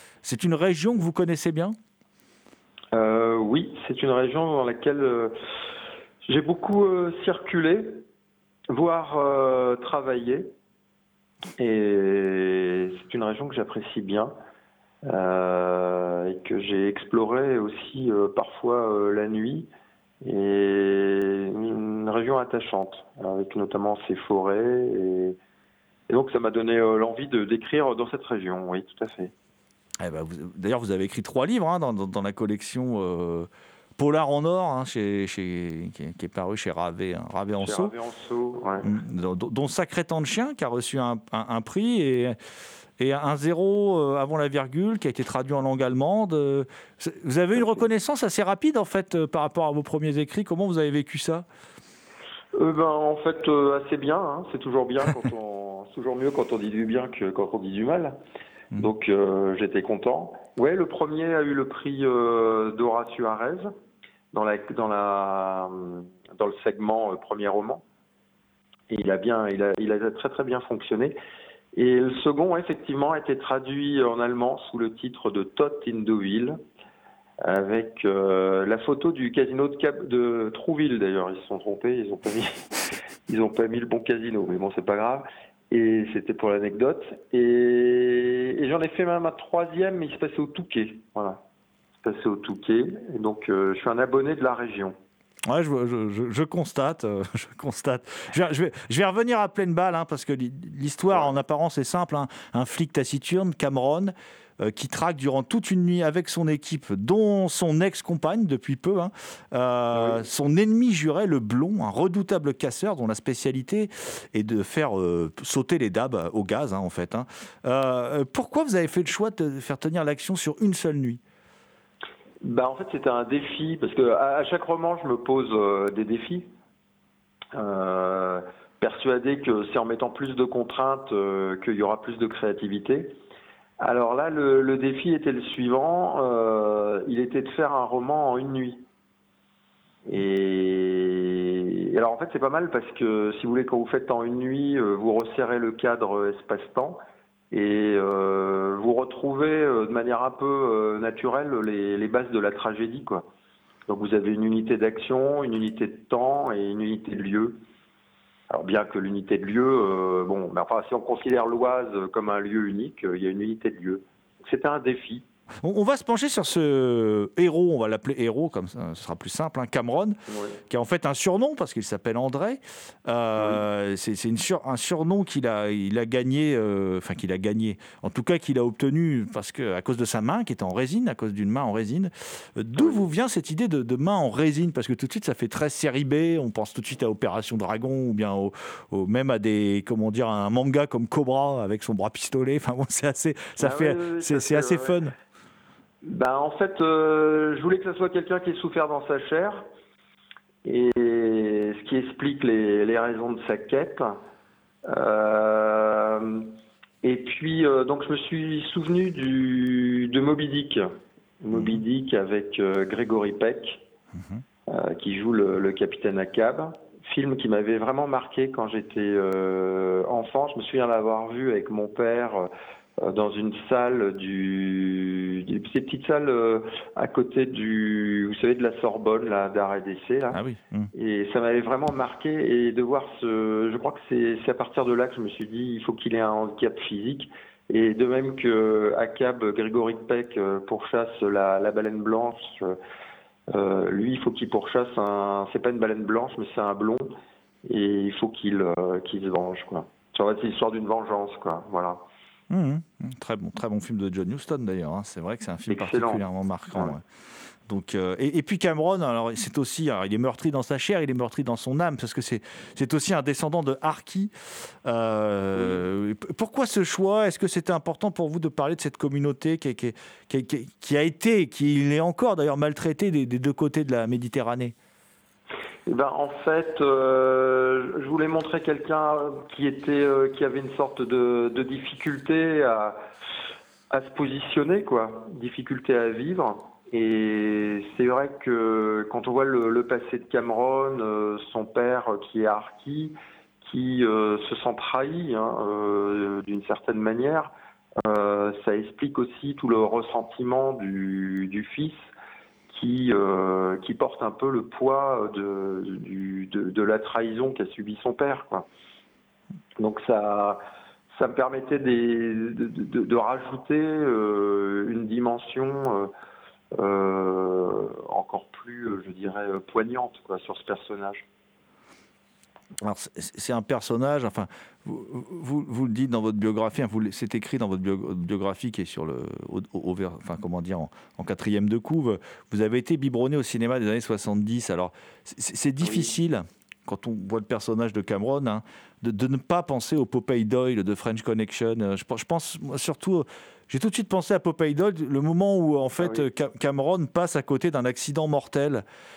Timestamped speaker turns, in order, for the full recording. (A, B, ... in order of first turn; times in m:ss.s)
0:00.2-0:01.7 A
0:02.9-0:05.3 B
0:06.2-0:08.0 B
0:08.7-0:10.5 B
0:11.6-0:14.3 B
0:15.0-0:19.7 B
0:20.2-0:25.4 B
0:26.1-0:29.3 B
0:30.0-0:37.9 A
0:37.6-0:38.9 B
0:38.8-0:42.4 A
0:43.0-0:51.4 A
0:47.5-0:47.9 B
0:52.6-0:58.2 B
0:58.8-1:03.7 B
1:04.3-1:07.8 B
1:08.9-1:11.2 B
1:11.7-1:16.6 B
1:17.4-1:22.7 B
1:23.3-1:31.4 B
1:32.0-1:35.0 B
1:35.5-2:01.2 A
1:49.9-1:50.2 B
2:02.4-2:06.5 B
2:07.5-2:13.2 B
2:13.8-2:18.8 B
2:20.0-2:27.0 B
2:27.5-2:33.3 B
2:33.9-2:37.6 B
2:38.5-2:45.2 B
2:45.6-2:50.2 A
2:50.3-2:50.6 B
2:50.7-3:15.1 A
2:53.4-2:53.6 B
3:02.7-3:03.0 B
3:13.6-3:15.1 B
3:16.0-3:19.6 B
3:20.6-3:24.2 B
3:24.8-3:30.9 B
3:31.4-3:33.8 B
3:31.5-3:31.8 A
3:34.7-3:50.4 B
3:50.3-3:50.9 A
3:50.9-4:02.8 B
4:03.5-4:07.1 B
4:07.6-4:12.0 B
4:12.5-4:17.0 A
4:15.7-4:16.9 B
4:17.7-4:34.7 A
4:35.8-4:43.0 B
4:43.9-4:57.5 B
4:58.0-5:02.1 B
5:02.7-5:08.6 B
5:09.8-5:10.6 B
5:11.1-5:16.1 B
5:16.8-5:21.2 B
5:22.8-5:48.8 A
5:35.8-5:36.1 B
5:46.0-5:46.3 B